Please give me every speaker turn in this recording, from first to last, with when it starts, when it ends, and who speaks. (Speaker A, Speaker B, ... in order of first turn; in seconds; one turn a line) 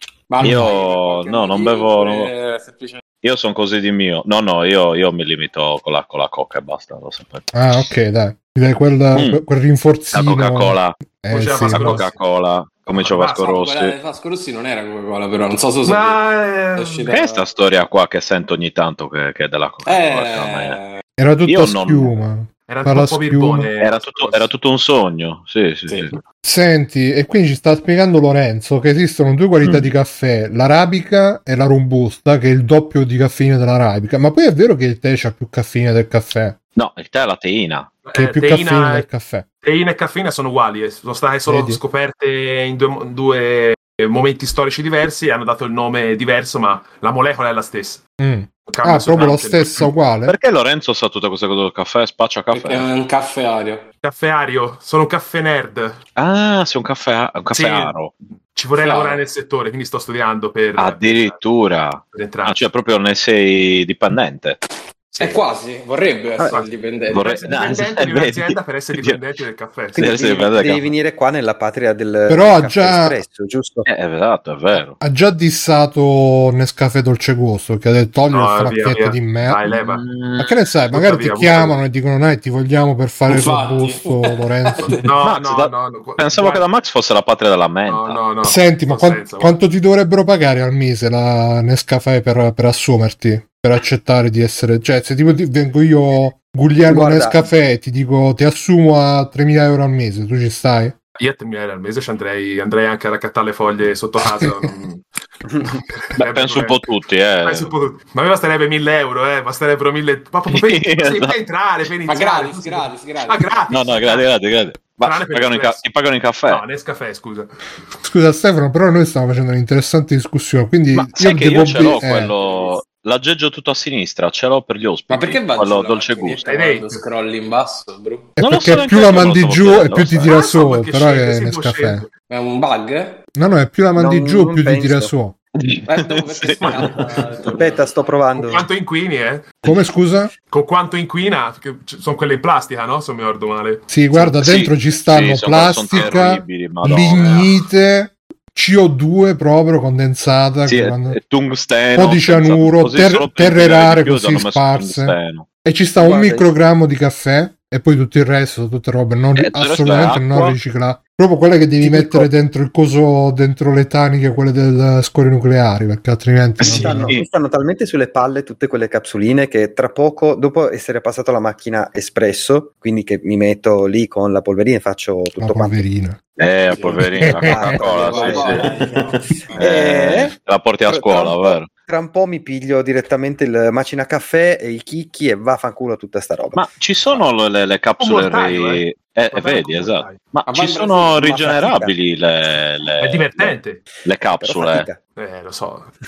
Speaker A: 0.3-3.0
Speaker B: 0.4-2.3
Speaker B: 3.2-7.5
Speaker C: 7.5-12.0
Speaker B: 9.1-9.4
Speaker B: 10.1-10.9
Speaker D: 11.3-12.2
Speaker B: 11.7-13.9
Speaker D: 12.9-13.5
Speaker A: 13.3-16.2
Speaker D: 15.8-17.1
Speaker A: 16.8-17.4
Speaker B: 17.1-20.8
Speaker A: 19.9-21.0
Speaker C: 21.2-23.7
Speaker B: 21.5-22.1
Speaker D: 22.7-24.5
Speaker B: 23.8-26.1
Speaker A: 25.9-26.2
Speaker C: 26.4-36.6
Speaker B: 29.6-29.9
Speaker B: 36.8-37.9
Speaker D: 38.1-39.1
Speaker C: 38.1-39.5
Speaker D: 39.6-48.0
Speaker C: 41.5-41.8
Speaker C: 48.2-50.4
Speaker D: 48.7-49.9
Speaker B: 50.3-52.9
Speaker A: 52.5-53.9
Speaker D: 54.0-56.0
Speaker B: 56.2-58.1
Speaker D: 57.5-58.0
Speaker D: 58.5-61.4
Speaker A: 58.8-59.2
Speaker B: 60.8-64.6
Speaker D: 62.1-62.6
Speaker D: 65.1-65.4
Speaker A: 65.2-67.7
Speaker D: 66.5-70.1
Speaker B: 67.1-69.2
Speaker E: 70.0-73.9
Speaker B: 70.0-70.9
Speaker C: 72.3-73.2
Speaker B: 73.8-75.0
Speaker C: 75.0-79.6
Speaker D: 78.3-80.0
Speaker B: 79.8-80.5
Speaker C: 80.4-84.8
Speaker D: 80.9-81.8
Speaker A: 83.3-85.1
Speaker D: 84.8-86.6
Speaker B: 85.2-88.2
Speaker D: 87.9-89.6
Speaker C: 88.4-101.0
Speaker E: 96.8-97.5
Speaker D: 101.2-105.0
Speaker D: 105.6-106.8
Speaker B: 106.2-107.7
Speaker D: 107.4-114.2
Speaker B: 110.5-111.3
Speaker A: 112.1-113.6
Speaker B: 113.7-116.6
Speaker D: 115.0-115.8
Speaker D: 116.5-117.5
Speaker C: 118.0-122.3
Speaker B: 120.9-126.5
Speaker A: 122.4-122.8
Speaker A: 125.1-128.3
Speaker D: 126.5-127.0
Speaker C: 128.4-132.1
Speaker B: 128.4-130.3
Speaker D: 130.2-132.1
Speaker A: 132.3-133.2
Speaker C: 133.4-135.3
Speaker E: 134.0-135.1
Speaker B: 135.6-137.1
Speaker A: 135.9-138.1
Speaker D: 136.6-137.0
Speaker E: 137.6-138.7
Speaker D: 138.3-139.5
Speaker C: 139.6-140.3
Speaker D: 140.5-144.3
Speaker C: 143.9-151.2
Speaker B: 144.4-147.4
Speaker D: 145.9-146.2
Speaker D: 147.1-147.5
Speaker B: 150.7-155.5
Speaker C: 151.9-167.1
Speaker E: 156.0-156.5
Speaker B: 159.4-160.6
Speaker E: 161.8-162.3
Speaker B: 166.6-167.3
Speaker E: 166.6-175.8
Speaker C: 175.4-176.2
Speaker B: 176.4-178.8
Speaker A: 176.7-177.0
Speaker C: 177.2-177.7
Speaker E: 177.4-178.9
Speaker A: 177.7-179.7
Speaker E: 179.4-180.3
Speaker B: 179.6-181.7
Speaker E: 180.9-186.7
Speaker B: 186.6-194.9
Speaker D: 188.0-190.2
Speaker A: 190.5-191.1
Speaker E: 191.2-191.9
Speaker D: 193.0-193.8
Speaker E: 194.4-195.0
Speaker D: 195.2-195.9